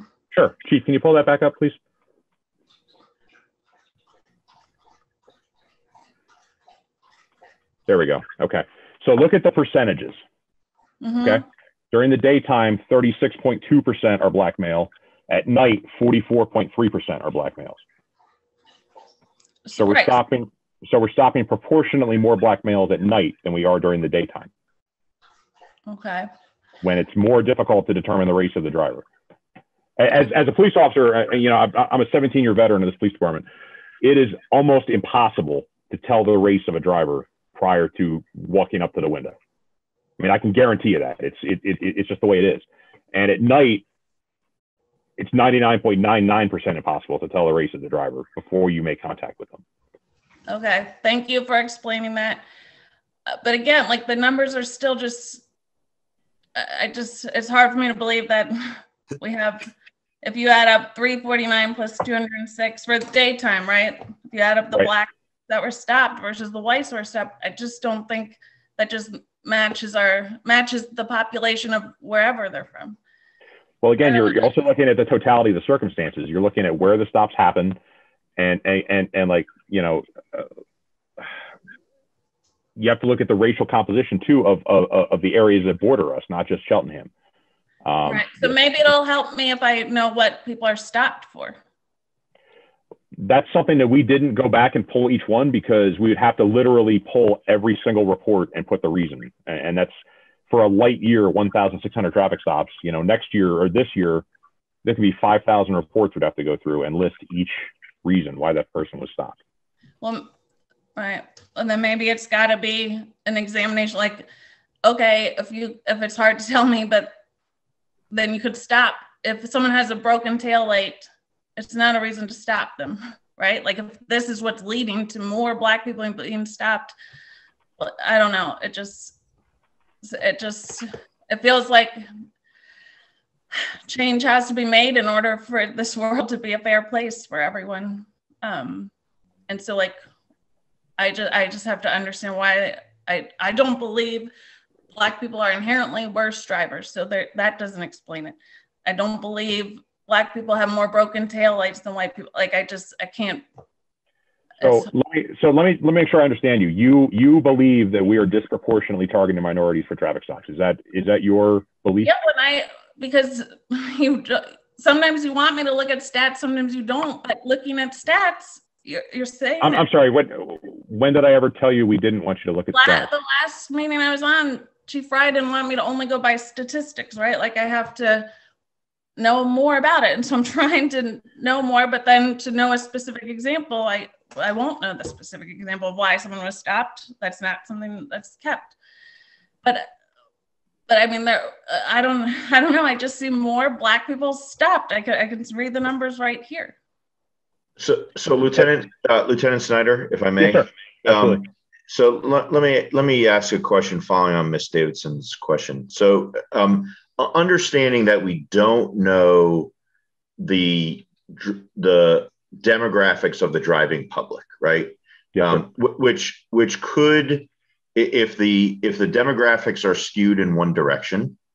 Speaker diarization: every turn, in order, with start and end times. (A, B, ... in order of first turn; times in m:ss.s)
0:00.3-0:01.8 A
0:07.9-0:10.2 A
0:11.0-0:11.4 B
0:11.2-0:17.8 A
0:19.7-0:20.2 B
0:19.8-0:24.5 A
0:25.9-0:26.3 B
0:26.8-0:29.0 A
0:30.0-0:33.4 A
0:34.0-0:39.3 A
0:40.2-0:43.8 A
0:45.2-0:49.6 A
0:50.5-0:52.4 B
0:53.3-0:55.4 B
0:56.6-0:59.7 B
1:00.2-1:13.0 B
1:13.8-1:17.8 A
1:14.0-1:14.5 B
1:18.4-1:20.5 A
1:22.8-1:27.1 A
1:27.8-1:28.9 A
1:28.0-1:31.6 B
1:33.2-1:39.9 A
1:40.5-1:44.2 A
1:44.8-1:49.4 A
1:50.0-1:50.3 B
1:51.0-1:54.2 B
1:54.8-1:57.2 B
1:58.1-2:06.9 B
2:07.8-2:09.2 B
2:10.0-2:12.0 B
2:13.9-2:18.9 B
2:19.5-2:20.0 B
2:21.0-2:24.3 B
2:24.9-2:33.4 B
2:34.6-2:34.9 B
2:34.6-2:42.1 A
2:42.0-2:49.9 B
2:49.6-2:53.1 A
2:52.7-2:58.3 B
2:59.2-3:08.7 B
3:09.6-3:09.9 B
3:10.9-3:16.8 B
3:17.8-3:29.7 C
3:20.4-3:21.4 A
3:30.4-3:41.4 C
3:35.3-3:35.6 A